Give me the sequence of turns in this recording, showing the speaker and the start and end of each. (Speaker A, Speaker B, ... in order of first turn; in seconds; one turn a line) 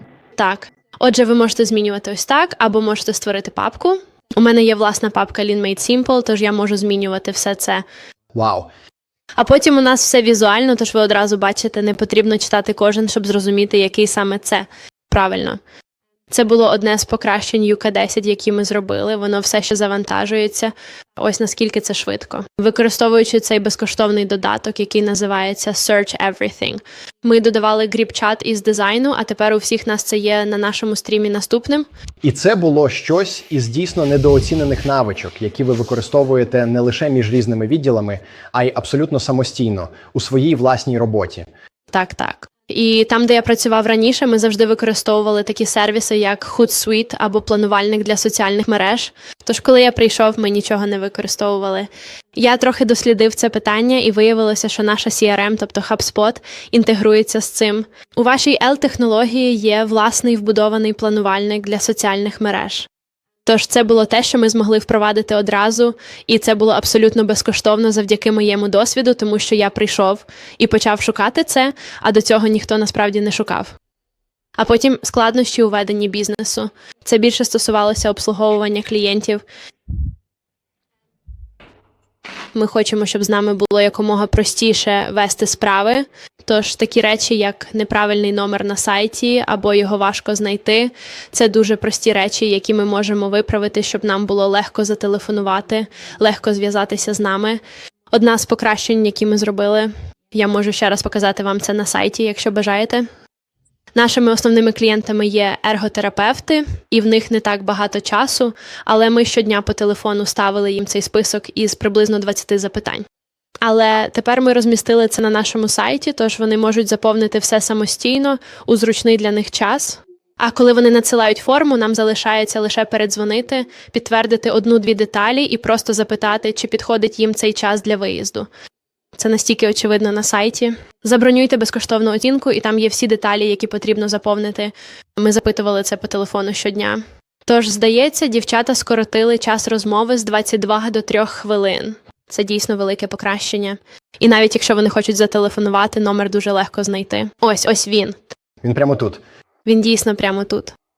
Speaker A: 0.4-7.8
Speaker B: 8.3-8.7
Speaker A: 9.4-15.6
Speaker A: 16.3-31.9
Speaker B: 32.2-41.5
Speaker A: 41.9-62.9
Speaker A: 63.4-73.7
Speaker A: 74.6-79.4
Speaker A: 82.5-97.6
Speaker A: 98.1-103.1
Speaker A: 103.9-113.0
Speaker A: 113.6-128.5
Speaker A: 129.1-148.2
Speaker B: 148.6-149.2
Speaker A: 149.6-150.7